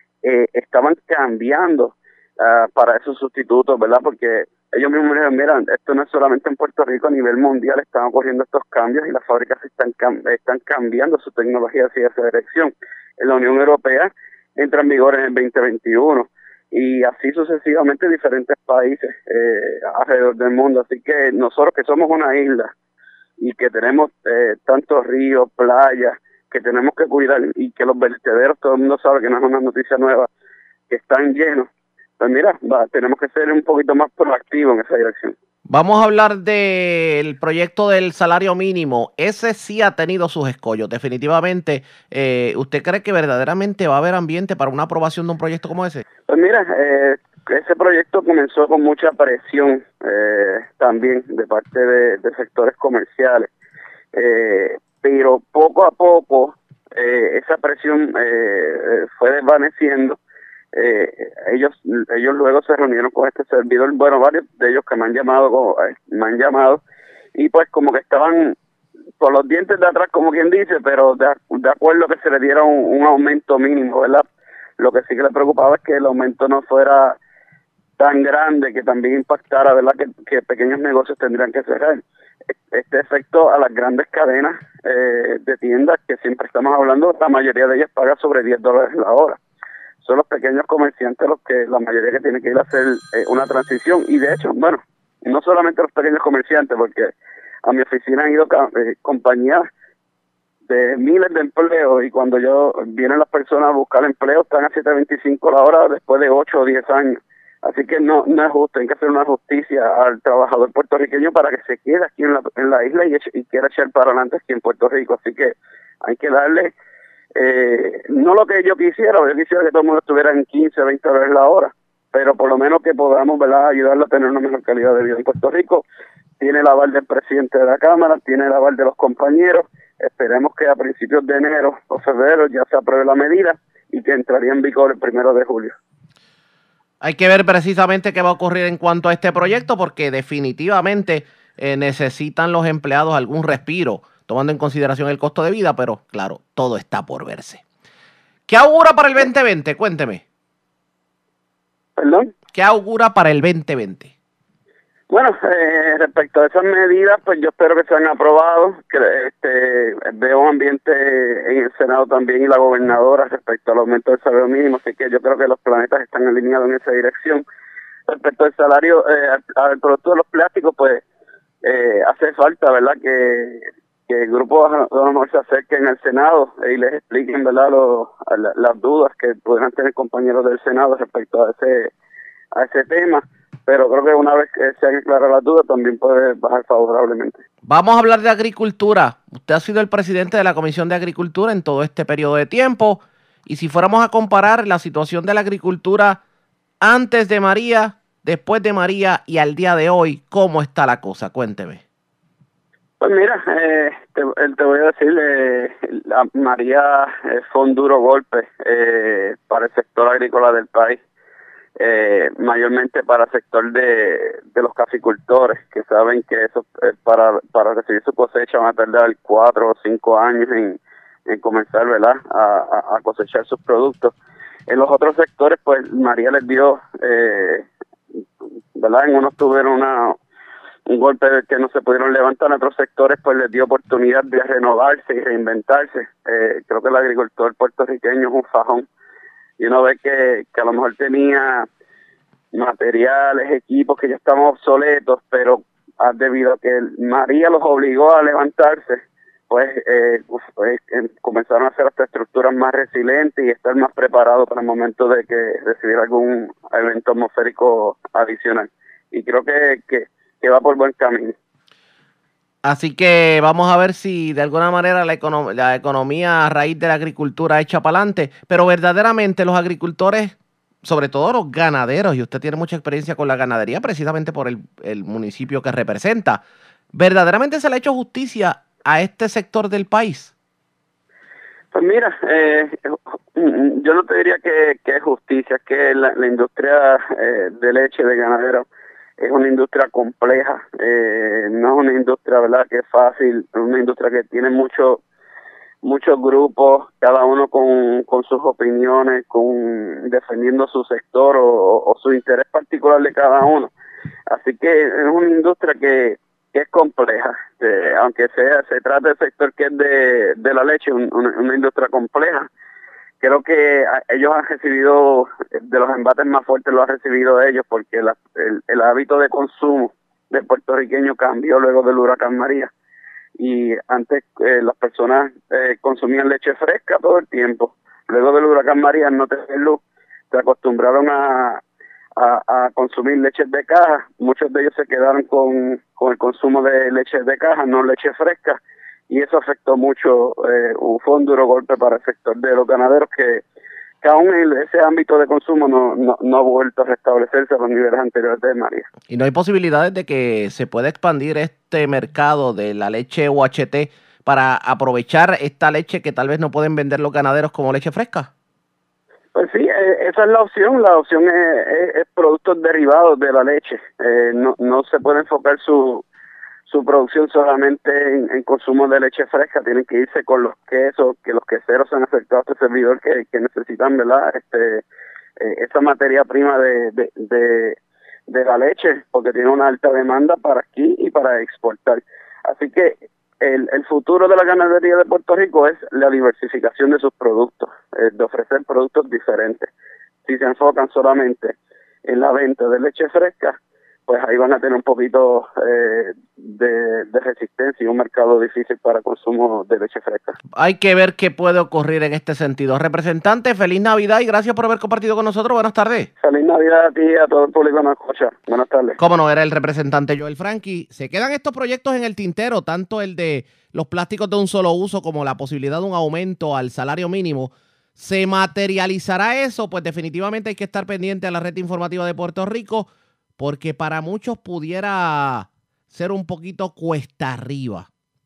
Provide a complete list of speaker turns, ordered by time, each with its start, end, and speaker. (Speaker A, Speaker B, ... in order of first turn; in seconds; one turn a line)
Speaker A: 0.2-22.7
Speaker A: 23.4-30.3
Speaker A: 30.9-31.7
Speaker A: 32.2-35.3
Speaker B: 35.7-46.0
Speaker A: 46.3-53.5
Speaker A: 54.1-60.2
Speaker A: 60.7-66.8
Speaker A: 67.3-68.5
Speaker A: 69.2-74.2
Speaker A: 74.8-77.2
Speaker A: 78.0-82.0
Speaker A: 82.7-89.4
Speaker A: 90.0-97.1
Speaker A: 97.6-99.7
Speaker A: 100.7-116.7
Speaker A: 117.3-125.8
Speaker A: 126.4-135.8
Speaker B: 137.0-147.6
Speaker B: 148.5-150.2
Speaker A: 152.0-152.3
Speaker B: 152.5-154.1
Speaker A: 155.1-167.4
Speaker A: 168.1-171.0
Speaker A: 171.6-181.9
Speaker A: 182.5-187.4
Speaker B: 187.6-196.2
Speaker B: 196.8-201.8
Speaker A: 203.0-211.0
Speaker A: 211.8-224.1
Speaker A: 224.7-227.7
Speaker A: 228.8-230.2
Speaker A: 230.9-238.8
Speaker A: 239.6-241.7
Speaker A: 242.5-261.3
Speaker B: 262.6-270.3
Speaker B: 270.8-276.4
Speaker B: 276.9-280.3
Speaker A: 281.7-288.6
Speaker A: 289.2-295.0
Speaker A: 295.8-303.7
Speaker A: 304.3-312.5
Speaker A: 313.2-322.7
Speaker A: 323.4-329.8
Speaker A: 330.3-331.6
Speaker A: 332.2-343.4
Speaker A: 344.0-348.9
Speaker B: 349.1-358.3
Speaker A: 359.3-366.0
Speaker A: 366.7-374.8
Speaker A: 375.4-377.8
Speaker A: 378.3-389.7
Speaker A: 390.2-391.5
Speaker A: 392.0-393.6
Speaker A: 394.1-400.4
Speaker B: 400.5-406.1
Speaker A: 406.2-409.0
Speaker B: 409.0-427.9